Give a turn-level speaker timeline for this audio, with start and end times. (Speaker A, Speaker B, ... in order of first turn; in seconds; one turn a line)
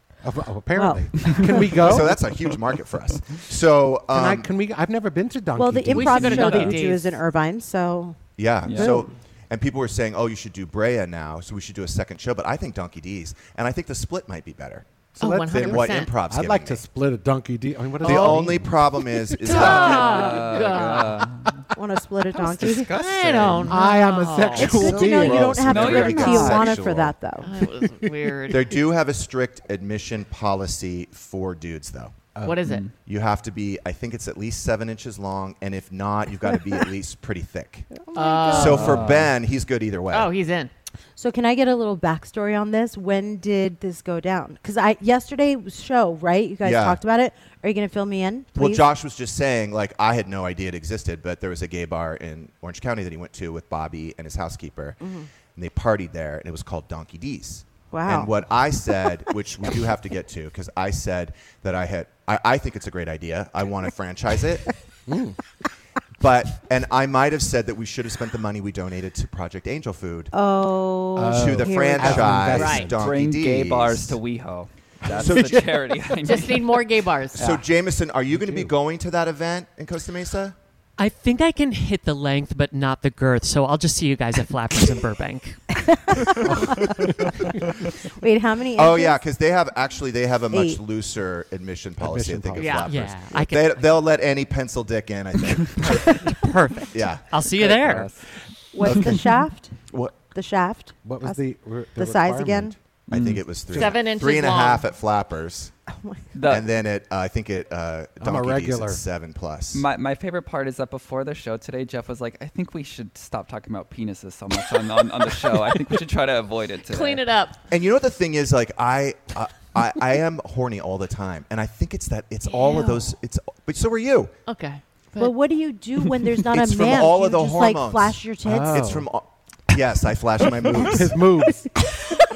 Speaker A: 0.2-2.3
Speaker B: 0.7-1.8
Speaker C: 1.8-4.5
Speaker A: 4.1-6.8
Speaker B: 5.6-8.2
Speaker D: 5.9-7.2
Speaker C: 8.4-16.8
Speaker E: 8.7-9.0
Speaker B: 8.8-9.0
Speaker A: 15.1-20.1
Speaker D: 15.2-16.2
Speaker D: 18.0-18.5
Speaker C: 18.0-20.3
Speaker D: 19.4-21.3
Speaker E: 19.5-21.5
Speaker A: 21.4-21.7
Speaker B: 21.8-22.9
Speaker E: 22.4-23.9
Speaker D: 22.9-24.9
Speaker A: 23.7-28.4
Speaker B: 24.5-27.5
Speaker E: 24.9-26.8
Speaker C: 25.1-27.1
Speaker D: 27.4-28.8
Speaker C: 28.5-32.3
Speaker A: 32.4-32.6
Speaker D: 32.4-32.9
Speaker E: 32.6-32.9
Speaker C: 33.0-37.9
Speaker B: 37.9-39.0
Speaker D: 38.1-39.1
Speaker C: 38.5-40.3
Speaker E: 38.6-39.3
Speaker D: 40.1-40.7
Speaker B: 41.2-48.9
Speaker C: 46.6-47.0
Speaker C: 48.5-55.0
Speaker B: 55.0-55.3
Speaker C: 55.5-64.7
Speaker B: 57.9-58.3
Speaker A: 65.1-65.4
Speaker C: 66.2-70.3
Speaker B: 70.3-72.4
Speaker A: 71.2-73.1
Speaker C: 71.3-74.2
Speaker D: 72.5-72.9
Speaker E: 73.0-76.8
Speaker A: 75.1-75.7
Speaker C: 75.2-75.6
Speaker D: 76.2-77.7
Speaker C: 77.3-80.6
Speaker A: 78.3-78.7
Speaker F: 81.0-85.6
Speaker B: 85.8-87.0
Speaker A: 86.3-87.6
Speaker B: 88.0-89.2
Speaker C: 88.8-96.2
Speaker B: 90.5-90.8
Speaker A: 92.0-93.2
Speaker D: 92.6-92.9
Speaker F: 92.9-94.0
Speaker F: 96.2-98.1
Speaker C: 96.9-98.0
Speaker E: 97.6-98.2
Speaker B: 98.7-99.8
Speaker C: 99.9-100.2
Speaker B: 100.3-101.4
Speaker A: 101.0-102.8
Speaker B: 101.9-102.8
Speaker E: 103.1-103.6
Speaker C: 103.1-105.7
Speaker A: 103.7-104.0
Speaker D: 103.7-104.9
Speaker B: 105.9-106.2
Speaker E: 106.3-106.7
Speaker C: 106.4-109.9
Speaker A: 108.2-109.0
Speaker E: 109.7-117.2
Speaker D: 116.8-117.6
Speaker C: 117.7-124.3
Speaker D: 122.5-123.1
Speaker D: 124.5-125.4
Speaker B: 125.2-128.9
Speaker C: 126.4-128.2
Speaker A: 128.4-129.1
Speaker C: 128.7-131.2
Speaker A: 130.6-131.7